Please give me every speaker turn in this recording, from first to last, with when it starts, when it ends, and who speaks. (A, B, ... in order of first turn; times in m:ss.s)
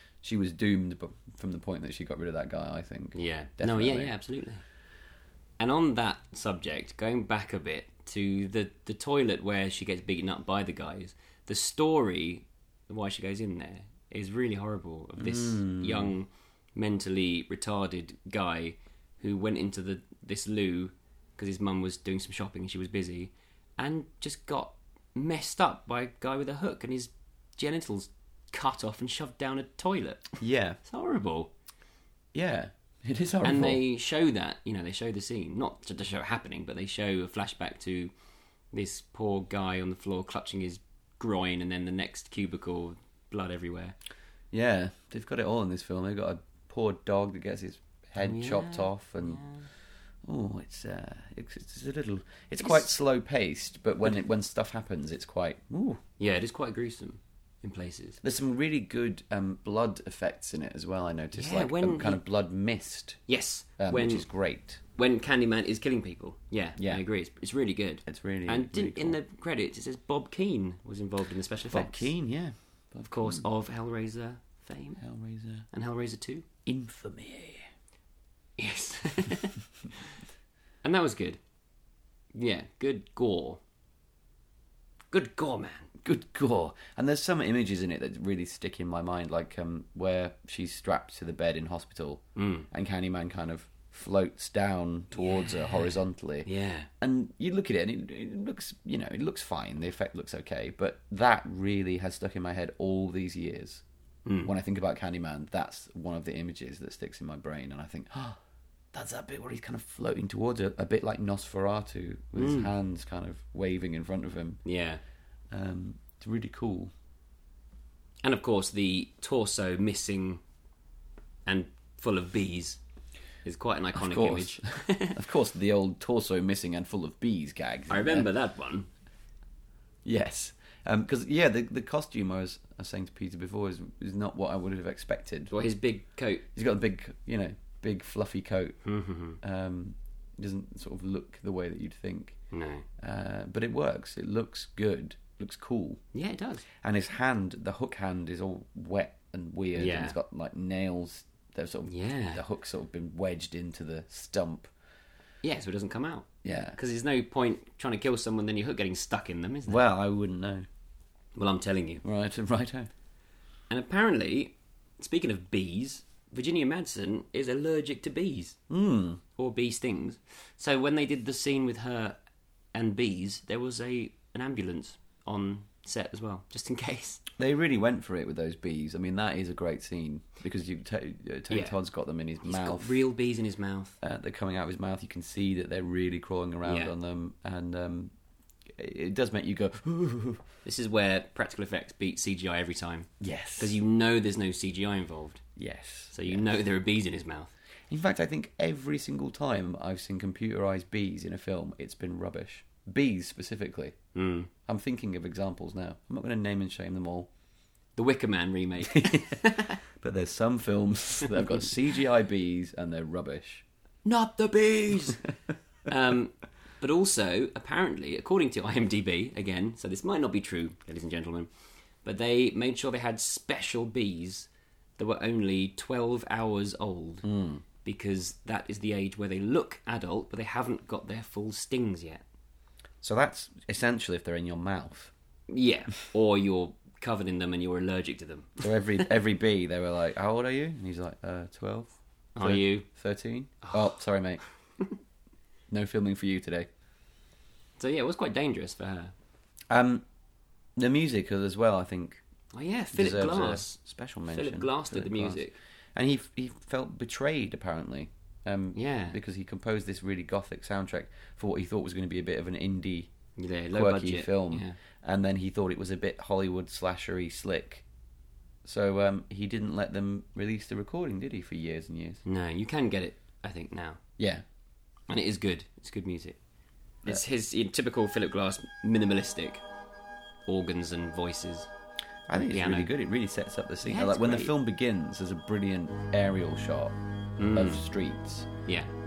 0:00.2-0:04.1 A
0:03.2-0:04.6 B
0:05.6-0:31.5 B
0:15.2-0:16.1 A
0:30.4-0:30.8 A
0:32.3-0:33.8 A
0:33.4-0:38.1 B
0:38.7-0:44.0 B
0:44.5-0:49.4 A
0:48.2-0:49.7 B
0:50.2-0:56.0 A
0:56.2-0:58.2 B
0:58.2-1:03.2 A
1:01.3-1:02.2 B
1:03.3-1:04.3 B
1:03.8-1:04.8 A
1:05.0-1:12.1 B
1:06.8-1:07.0 A
1:08.1-1:09.2 A
1:11.7-1:13.5 A
1:13.1-1:15.0 B
1:15.0-1:15.7 A
1:15.7-1:16.5 B
1:16.7-1:17.7 A
1:18.6-1:19.6 B
1:20.8-1:21.4 B
1:22.3-1:23.6 B
1:25.1-1:25.9 B
1:26.0-1:43.8 A
1:32.4-1:32.7 B
1:35.2-1:36.9 B
1:44.3-1:44.5 B
1:44.4-1:48.4 A
1:48.9-1:54.6 A
1:52.4-1:52.7 B
1:54.6-1:55.0 B
1:55.5-1:56.9 A
1:58.2-2:00.4 B
2:01.5-2:02.8 B
2:03.4-2:05.2 B
2:04.0-2:08.3 A
2:07.9-2:08.9 B
2:10.0-2:15.5 A
2:15.5-2:16.4 B
2:16.6-2:18.8 A
2:18.8-2:19.4 B
2:19.4-2:22.4 A
2:22.5-2:22.9 B
2:23.0-2:26.0 A
2:26.1-2:26.6 B
2:26.8-2:34.7 A
2:29.8-2:30.2 B
2:31.9-2:32.4 B
2:35.4-2:39.8 B
2:36.4-2:36.8 A
2:39.7-2:40.7 A
2:41.4-2:42.0 B
2:42.0-2:42.9 A
2:43.7-2:48.6 B
2:48.7-2:49.2 A
2:49.4-2:52.2 B
2:52.7-2:57.2 B
2:57.4-3:03.0 A
3:01.5-3:01.8 B
3:02.4-3:04.0 B
3:04.0-3:08.1 A
3:06.6-3:06.9 B
3:08.7-3:10.4 A
3:10.6-3:15.4 B
3:13.2-3:13.8 A
3:15.6-3:16.5 A
3:16.1-3:17.5 B
3:17.9-3:24.0 A
3:24.2-3:24.5 B
3:24.7-3:27.3 A
3:28.0-3:29.8 B
3:28.9-3:33.6 A
3:34.1-3:35.2 B
3:34.4-3:35.2 A
3:35.9-3:41.5 B
3:42.0-3:47.3 B
3:47.2-3:47.6 A
3:47.8-3:52.2 B
3:53.0-3:55.1 A
3:55.5-3:59.0 B
3:58.6-4:04.4 A
4:02.4-4:02.9 B
4:03.6-4:03.9 B
4:05.7-4:06.7 A
4:07.8-4:09.1 B
4:09.7-4:10.0 A
4:10.8-4:12.2 A
4:12.5-4:13.8 B
4:12.9-4:23.1 A
4:14.3-4:15.6 B
4:18.8-4:19.2 B
4:23.4-4:24.8 B
4:23.7-4:27.8 A
4:28.6-4:32.2 A
4:32.2-4:34.0 B
4:34.2-4:34.4 A
4:35.1-4:36.4 B
4:37.0-4:39.6 B
4:40.5-4:41.7 B
4:42.3-4:47.0 A
4:42.4-4:42.9 B
4:43.8-4:44.5 B
4:47.4-4:47.8 B
4:47.5-4:48.5 A